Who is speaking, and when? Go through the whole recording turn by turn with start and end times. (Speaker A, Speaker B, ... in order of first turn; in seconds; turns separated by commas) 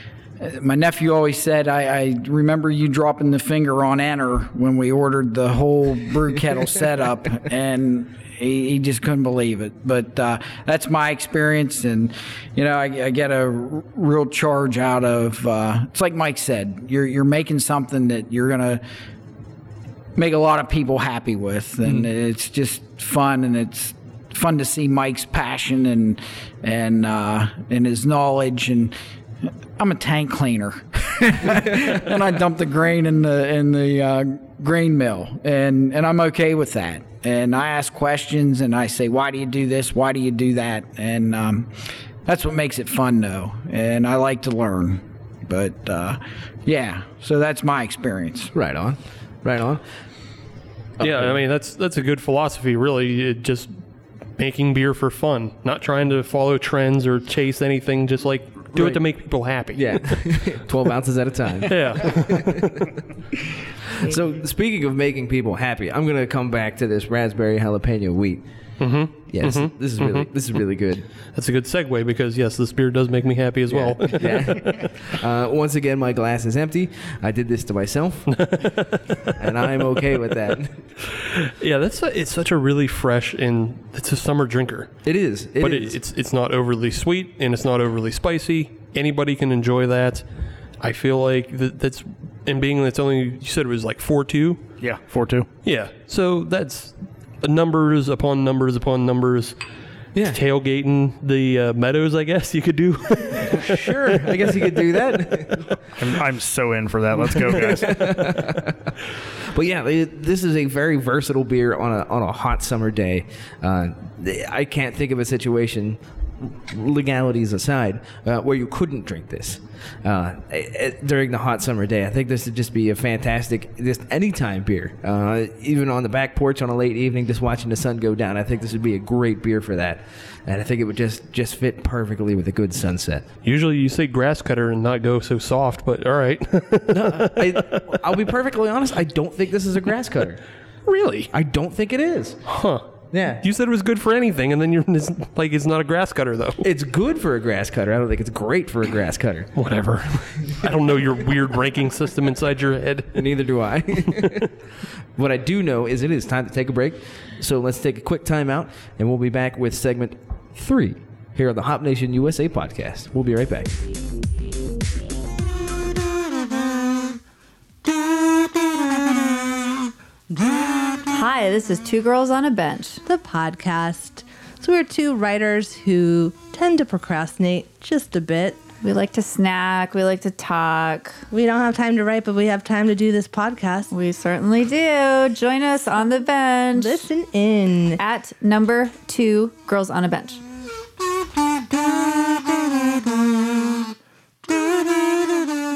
Speaker A: 0.4-18.8, Speaker A: 20.2-48.5, Speaker B: 48.5-49.8, Speaker B: 51.0-51.4, Speaker C: 51.0-53.8, Speaker C: 54.4-60.6, Speaker B: 58.7-62.9, Speaker C: 61.7-62.8, Speaker B: 64.0-68.4, Speaker C: 68.8-70.3, Speaker B: 69.0-71.1, Speaker C: 71.3-74.6, Speaker B: 73.7-78.7, Speaker C: 78.3-79.4, Speaker B: 79.4-80.9, Speaker C: 81.3-85.0, Speaker B: 85.0-86.0, Speaker C: 85.6-90.2, Speaker C: 90.8-94.6, Speaker D: 94.8-95.5, Speaker C: 95.6-99.6, Speaker B: 100.1-100.4, Speaker C: 100.3-103.9, Speaker B: 103.6-105.7, Speaker D: 106.0-108.1, Speaker B: 107.4-108.9, Speaker B: 109.5-133.2, Speaker C: 133.4-137.9, Speaker B: 136.9-140.4, Speaker C: 140.9-141.3, Speaker B: 141.3-142.5, Speaker C: 142.5-146.6, Speaker B: 143.1-143.4, Speaker B: 146.6-149.5, Speaker C: 149.6-153.2, Speaker B: 153.2-154.5, Speaker C: 154.1-154.4, Speaker B: 155.2-163.8, Speaker E: 171.1-173.0, Speaker F: 173.1-178.7, Speaker E: 178.8-181.2, Speaker F: 181.3-183.9, Speaker E: 183.9-187.0, Speaker F: 186.8-188.0, Speaker E: 188.0-190.4